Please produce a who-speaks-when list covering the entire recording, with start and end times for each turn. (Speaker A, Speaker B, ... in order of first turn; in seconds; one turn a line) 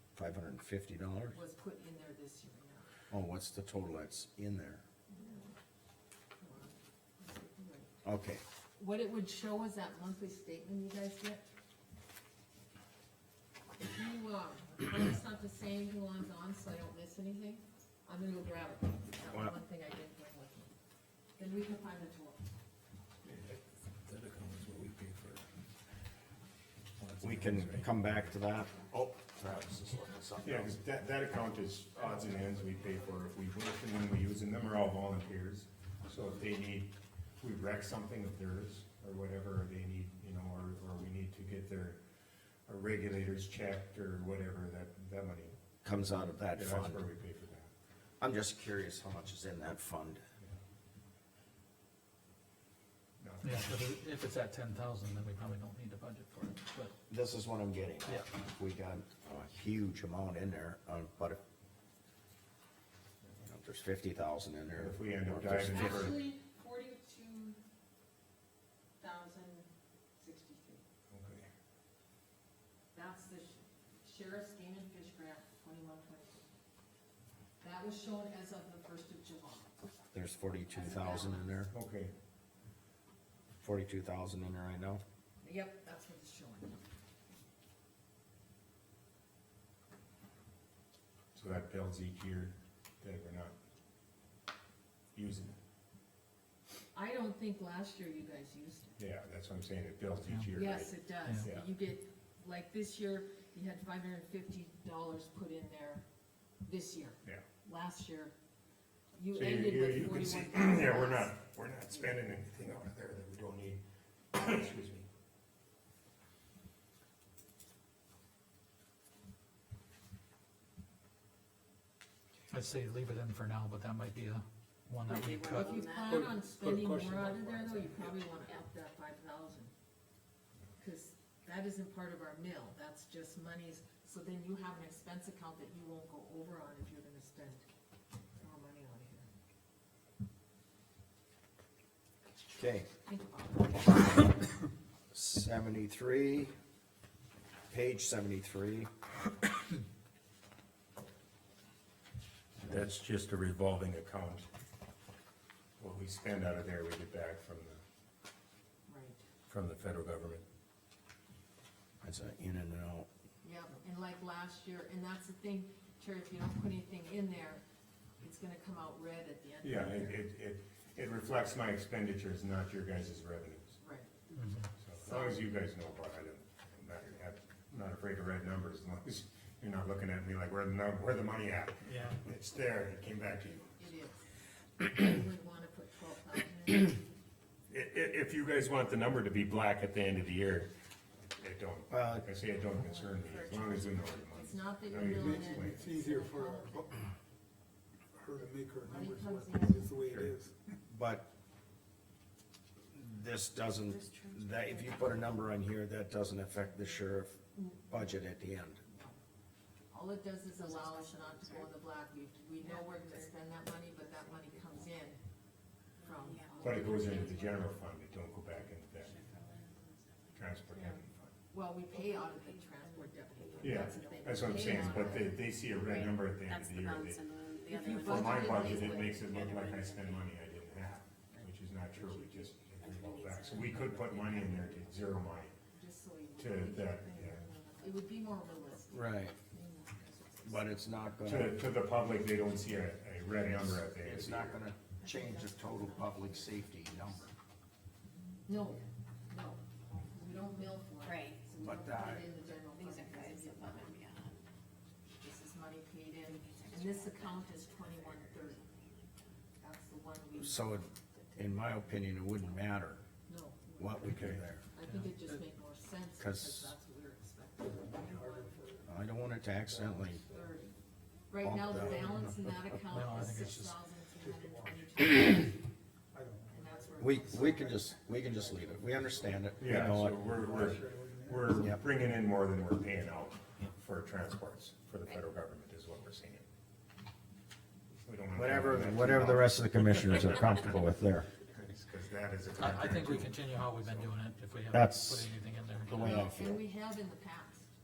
Speaker A: 0.2-1.4
Speaker B: 1.3-2.9
Speaker A: 3.1-4.8
Speaker B: 5.1-5.5
Speaker B: 6.4-7.9
Speaker A: 8.0-8.4
Speaker B: 8.8-11.4
Speaker B: 13.8-20.7
Speaker B: 21.4-22.5
Speaker C: 23.2-25.5
Speaker C: 27.0-28.1
Speaker A: 27.2-30.7
Speaker C: 30.4-42.0
Speaker C: 42.7-45.6
Speaker A: 45.8-47.0
Speaker C: 46.5-47.7
Speaker A: 48.2-50.2
Speaker C: 53.2-53.7
Speaker D: 53.4-56.9
Speaker A: 57.1-61.4
Speaker A: 63.4-66.2
Speaker C: 64.7-66.2
Speaker B: 65.7-67.6
Speaker B: 69.0-70.8
Speaker C: 71.1-71.5
Speaker B: 72.9-76.5
Speaker B: 77.6-79.8
Speaker A: 80.1-81.7
Speaker B: 80.7-81.6
Speaker C: 81.7-82.1
Speaker A: 83.6-85.0
Speaker B: 85.4-86.8
Speaker C: 91.3-93.6
Speaker C: 95.1-95.6
Speaker B: 96.9-99.0
Speaker C: 99.0-101.7
Speaker B: 100.5-106.0
Speaker B: 106.7-108.3
Speaker B: 109.2-111.4
Speaker C: 109.3-113.8
Speaker C: 114.3-115.1
Speaker D: 122.5-127.3
Speaker E: 125.0-126.4
Speaker B: 125.5-129.7
Speaker B: 130.8-137.7
Speaker B: 138.4-139.3
Speaker A: 142.5-142.9
Speaker B: 143.1-144.3
Speaker A: 145.1-146.5
Speaker A: 147.7-148.9
Speaker C: 152.6-154.5
Speaker C: 155.8-157.8
Speaker B: 158.9-159.2
Speaker C: 159.5-160.4
Speaker A: 162.0-163.1
Speaker B: 163.4-167.6
Speaker B: 168.2-170.2
Speaker C: 169.6-173.8
Speaker B: 173.8-174.1
Speaker D: 174.3-174.7
Speaker C: 174.8-183.8
Speaker B: 175.0-175.4
Speaker D: 181.9-182.2
Speaker B: 183.8-187.0
Speaker C: 187.7-190.7
Speaker C: 191.2-195.8
Speaker A: 191.9-192.3
Speaker E: 192.8-194.3
Speaker B: 194.3-197.1
Speaker F: 195.0-197.0
Speaker F: 198.1-200.6
Speaker B: 198.3-199.9
Speaker C: 200.0-200.3
Speaker A: 200.9-201.3
Speaker A: 202.9-208.8
Speaker E: 203.9-205.1
Speaker B: 207.6-208.0
Speaker B: 208.9-209.2
Speaker B: 209.9-215.2
Speaker E: 210.5-211.8
Speaker E: 212.6-214.9
Speaker B: 216.0-217.5
Speaker E: 216.0-217.7
Speaker C: 216.6-219.2
Speaker E: 219.0-221.1
Speaker C: 220.3-221.2
Speaker B: 221.5-225.3
Speaker E: 221.9-230.4
Speaker C: 223.6-227.2
Speaker B: 227.7-229.2
Speaker C: 227.9-235.5
Speaker E: 231.9-235.1
Speaker B: 235.7-239.8
Speaker C: 236.4-237.4
Speaker E: 236.8-238.1
Speaker A: 238.9-239.4
Speaker E: 239.6-240.6
Speaker A: 240.4-241.6
Speaker C: 241.2-244.7
Speaker A: 243.9-247.2
Speaker E: 245.0-247.3
Speaker B: 248.5-254.0
Speaker E: 251.0-251.4
Speaker A: 251.6-252.3
Speaker E: 252.7-254.5
Speaker B: 255.2-258.6
Speaker E: 256.2-259.3
Speaker B: 259.6-261.2
Speaker A: 260.4-263.0
Speaker B: 263.3-264.1
Speaker A: 263.8-264.6
Speaker C: 264.1-264.4
Speaker B: 264.7-268.5
Speaker D: 264.8-265.4
Speaker A: 266.2-266.7
Speaker F: 267.6-268.9
Speaker A: 268.9-270.2
Speaker F: 269.6-270.6
Speaker B: 270.3-270.8
Speaker B: 271.3-275.7
Speaker A: 271.4-272.3
Speaker F: 271.7-272.1
Speaker D: 272.9-273.8
Speaker F: 274.2-275.1
Speaker F: 276.1-281.8
Speaker B: 276.5-277.9
Speaker A: 277.0-280.4
Speaker C: 279.6-286.5
Speaker C: 288.0-290.1
Speaker A: 288.3-291.3
Speaker C: 291.5-294.1
Speaker D: 292.6-296.2
Speaker A: 294.7-295.3
Speaker A: 295.9-296.6
Speaker B: 296.0-297.7